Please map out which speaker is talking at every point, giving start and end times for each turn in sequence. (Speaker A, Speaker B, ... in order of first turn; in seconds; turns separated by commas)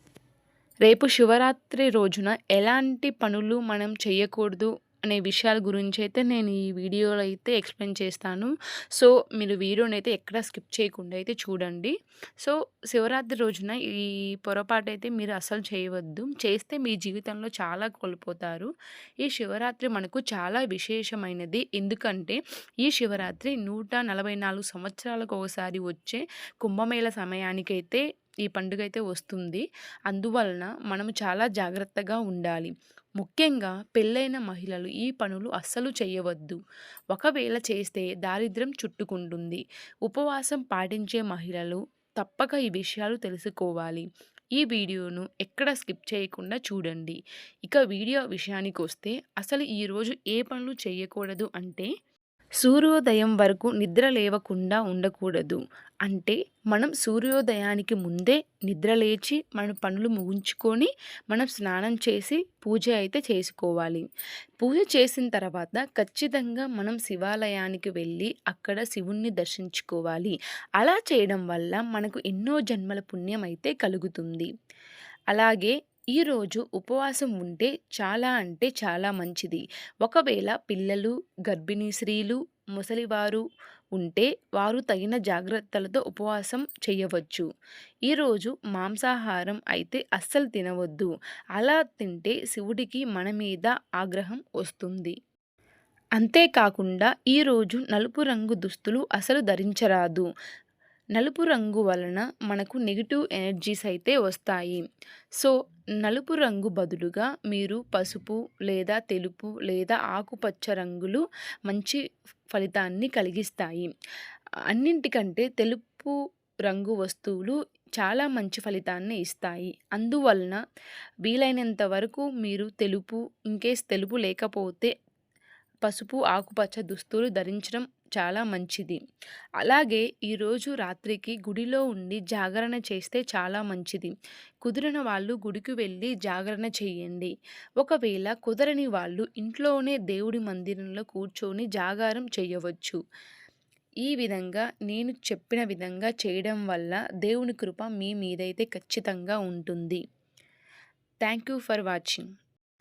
Speaker A: 0.9-18.7, Speaker A: 19.2-36.6, Speaker A: 37.1-51.9, Speaker A: 52.6-64.0, Speaker A: 64.6-74.5, Speaker A: 75.3-83.4, Speaker A: 84.0-87.5, Speaker A: 88.1-95.1, Speaker A: 96.2-100.3, Speaker A: 101.2-104.8, Speaker A: 105.4-112.0, Speaker A: 112.5-113.9, Speaker A: 114.7-116.1, Speaker A: 116.7-120.6, Speaker A: 121.2-124.9, Speaker A: 125.8-129.0, Speaker A: 129.6-143.0, Speaker A: 144.0-150.0, Speaker A: 151.2-152.3